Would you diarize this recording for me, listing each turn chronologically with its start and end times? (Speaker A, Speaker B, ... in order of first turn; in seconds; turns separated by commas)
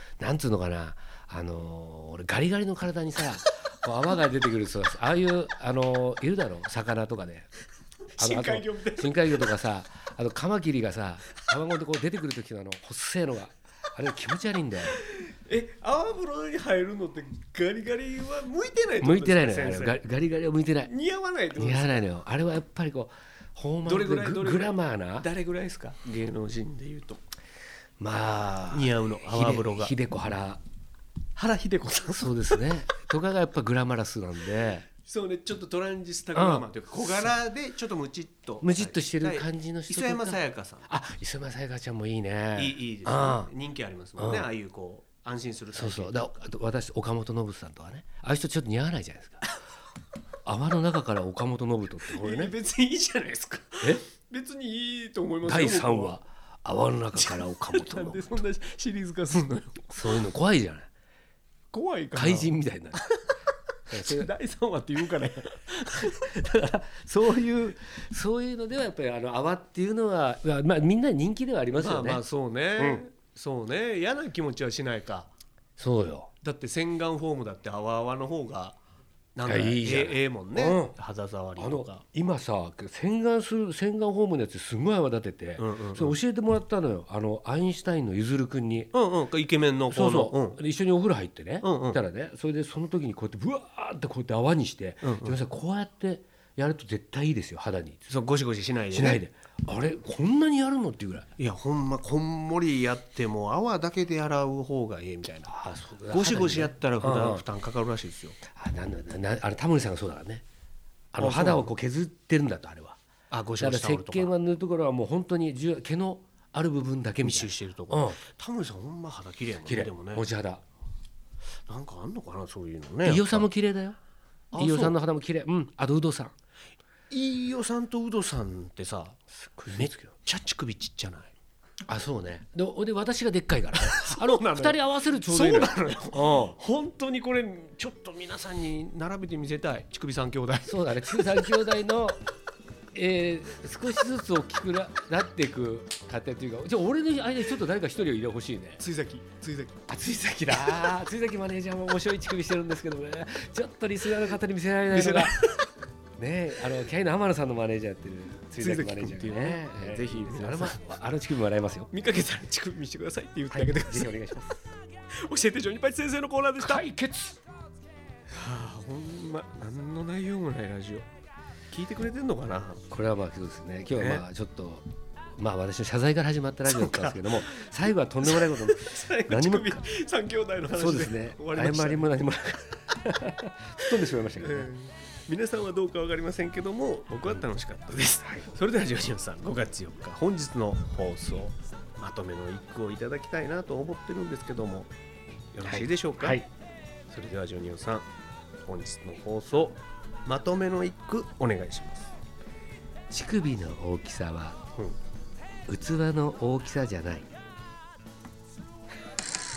Speaker A: 0.2-7.5, Speaker B: 8.2-9.5, Speaker A: 8.2-15.0, Speaker B: 15.0-20.0, Speaker A: 19.0-20.9, Speaker B: 20.9-22.1, Speaker A: 21.6-25.3, Speaker B: 23.9-27.2, Speaker A: 28.0-30.6, Speaker B: 28.7-29.9, Speaker B: 31.4-32.7, Speaker A: 32.2-34.9, Speaker B: 35.0-40.9, Speaker A: 36.3-37.3, Speaker A: 38.6-43.5, Speaker B: 42.5-46.3, Speaker A: 44.2-44.5, Speaker A: 45.7-49.4, Speaker A: 50.5-52.5, Speaker B: 52.1-56.2, Speaker A: 55.4-58.4, Speaker B: 57.2-60.2, Speaker A: 59.9-60.9, Speaker B: 61.7-63.1, Speaker A: 62.1-63.0, Speaker A: 63.9-64.3, Speaker B: 63.9-66.3, Speaker A: 66.1-72.2, Speaker B: 71.8-75.3, Speaker A: 72.8-73.0, Speaker A: 75.8-76.3, Speaker B: 76.4-78.8, Speaker B: 79.4-82.0, Speaker A: 79.5-81.0, Speaker A: 81.6-88.9, Speaker B: 85.6-86.2, Speaker B: 88.9-90.6, Speaker A: 89.9-98.1, Speaker B: 91.6-92.0, Speaker B: 95.0-95.4, Speaker B: 98.1-99.2, Speaker A: 98.9-101.3, Speaker B: 101.4-108.4, Speaker A: 105.5-107.4, Speaker A: 108.5-110.4, Speaker A: 111.1-113.0, Speaker B: 111.2-111.7, Speaker B: 113.3-114.3, Speaker A: 113.6-118.2, Speaker B: 117.2-120.3, Speaker A: 119.7-120.6, Speaker B: 121.7-123.5, Speaker A: 123.0-124.0, Speaker B: 124.5-125.0, Speaker A: 124.5-126.3, Speaker B: 127.1-131.3, Speaker A: 129.5-129.9, Speaker A: 131.9-136.6, Speaker B: 133.8-141.5, Speaker A: 140.7-142.2, Speaker A: 142.9-148.8, Speaker B: 148.8-149.8, Speaker A: 149.9-155.4, Speaker B: 150.5-150.9, Speaker B: 154.9-155.7, Speaker A: 156.2-161.9, Speaker B: 158.6-161.0, Speaker B: 161.9-164.4, Speaker A: 163.5-164.7, Speaker B: 165.2-166.8, Speaker A: 166.6-167.4, Speaker B: 168.3-171.1, Speaker B: 171.7-172.8, Speaker A: 172.9-174.8, Speaker B: 173.9-174.2, Speaker A: 175.4-179.8, Speaker B: 176.7-177.7, Speaker B: 178.2-182.2, Speaker A: 180.7-184.7, Speaker B: 184.4-194.9, Speaker B: 195.5-196.4, Speaker A: 195.6-196.5, Speaker B: 197.1-198.1, Speaker B: 198.7-202.1, Speaker A: 203.1-204.6, Speaker A: 205.7-207.3